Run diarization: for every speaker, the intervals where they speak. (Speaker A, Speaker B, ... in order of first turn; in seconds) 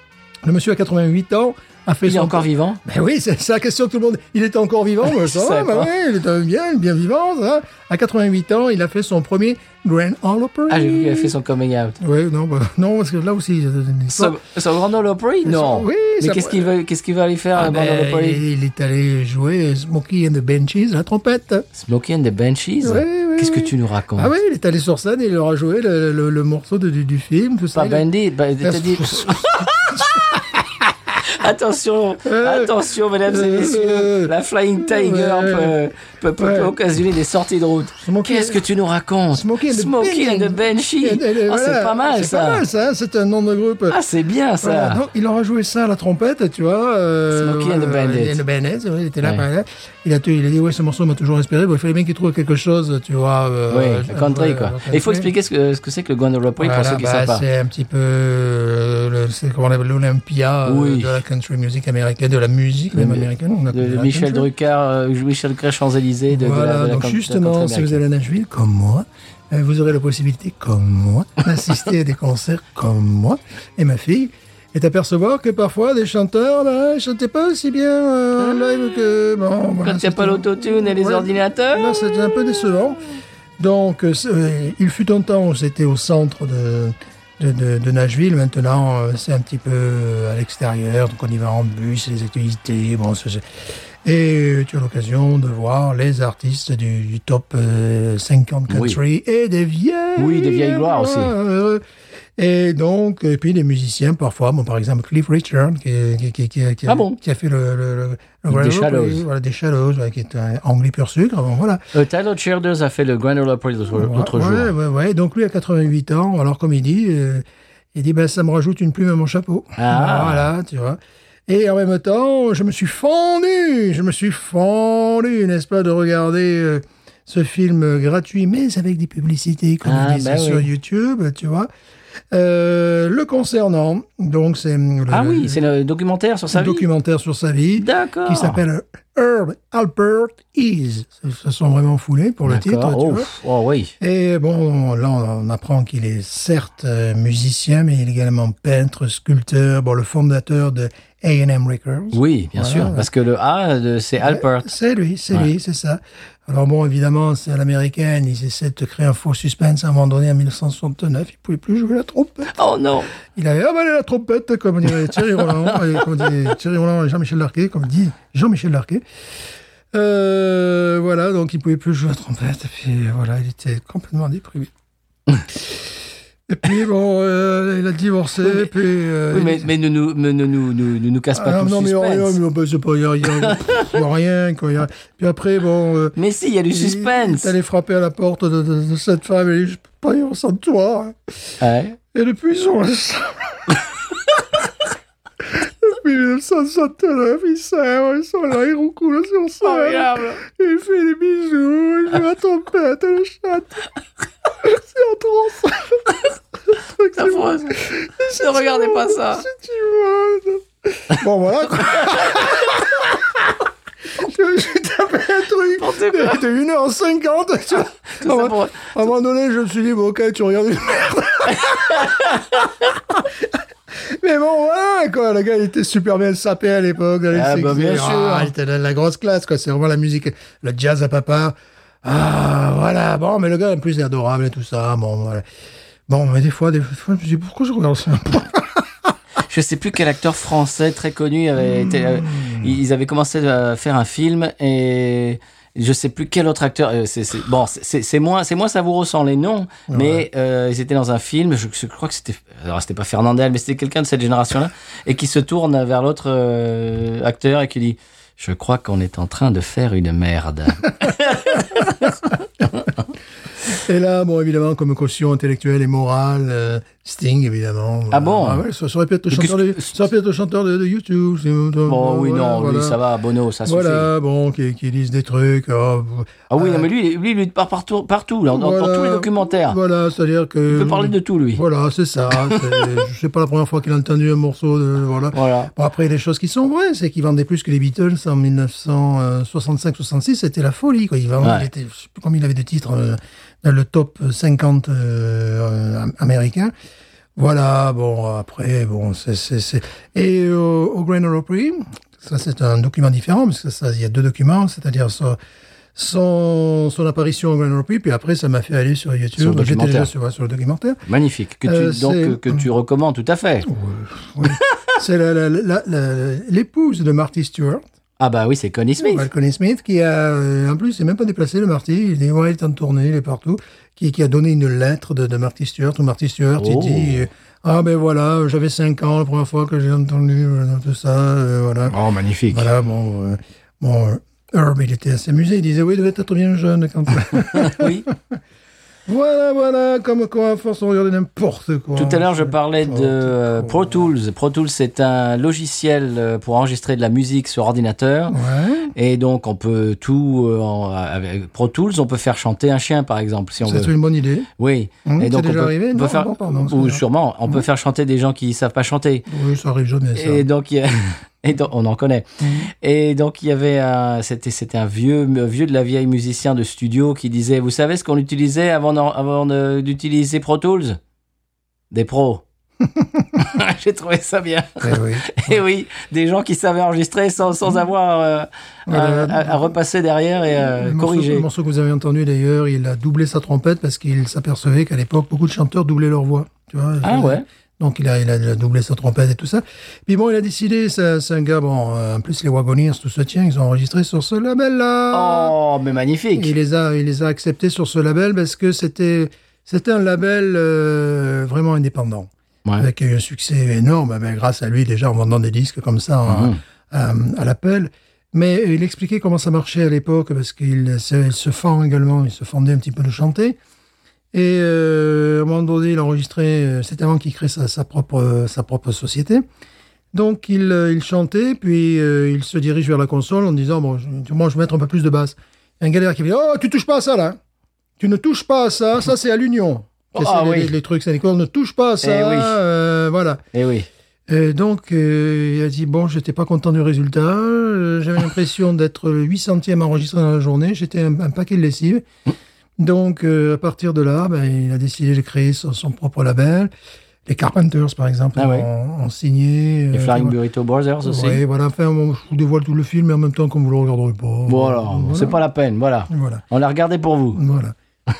Speaker A: 0.4-11.3, 12.0-14.4, 15.4-16.7, 17.6-21.7, 22.8-28.1, 28.6-30.6, 32.2-35.8, 36.4-36.7, 38.0-38.6, 39.3-44.0, 44.6-55.3, 56.6-64.5, 66.3-83.0, 83.6-101.8, 102.4-111.8, 113.9-131.7, 132.3-135.6, 136.5-143.3, 144.0-153.1, 154.2-162.5, 163.2-169.0, 169.9-174.7, 176.5-179.7, 181.3-186.2, 186.7-191.3, 192.1-193.9, 195.4-203.9, 204.6-213.5, 214.2-223.3, 223.9-235.4, 236.1-239.1, 241.6-242.7, 249.9-250.2, 263.6-273.0, 273.6-276.9, 278.5-296.7, 297.4-305.4, 305.9-311.0, 311.6-312.6, 313.7-317.8, 319.0-331.9, 332.5-338.4, 339.1-344.1, 348.3-348.9, 353.6-354.5, 355.1-357.6, 359.3-360.4, 362.4-362.7, 374.8-375.6, 378.9-379.7, 380.5-395.5, 396.3-413.6, 414.3-419.4, 420.1-427.4, 428.0-433.4, 434.3-442.0, 442.8-446.7, 447.2-450.4, 451.0-455.4, 456.1-456.4, 457.3-457.7
Speaker B: 2.0-2.8, 5.1-5.9, 10.7-12.0, 14.1-18.4, 21.7-24.3, 27.7-30.5, 31.2-42.6, 43.9-45.0, 47.3-48.4, 53.7-57.4, 60.6-61.2, 62.9-68.0, 79.8-81.9, 98.7-99.0, 100.2-101.3, 106.8-107.2, 108.5-109.2, 111.9-114.7, 119.8-120.5, 129.8-130.7, 135.1-136.8, 137.8-138.6, 142.4-143.9, 152.1-154.7, 162.5-163.1, 179.3-182.4, 183.4-183.9, 186.2-187.5, 191.6-192.0, 199.6-200.4, 207.1-209.4, 212.0-212.5, 215.8-216.4, 218.2-218.9, 221.6-222.4, 227.3-228.5, 239.4-262.9, 268.1-268.6, 269.3-269.9, 271.9-274.1, 276.5-279.8, 280.7-281.6, 282.4-283.0, 285.3-285.7, 291.4-291.7, 309.4-310.1, 311.1-313.7, 314.4-314.8, 318.2-319.3, 326.6-327.3, 331.9-332.7, 337.4-338.1, 341.9-348.4, 348.9-353.9, 354.6-359.3, 360.1-371.0, 371.9-372.4, 373.4-381.5, 387.0-387.4, 395.1-396.5, 406.3-406.6, 430.1-430.7, 432.0-432.6, 433.5-433.9, 448.4-448.7, 449.9-451.4, 454.5-457.4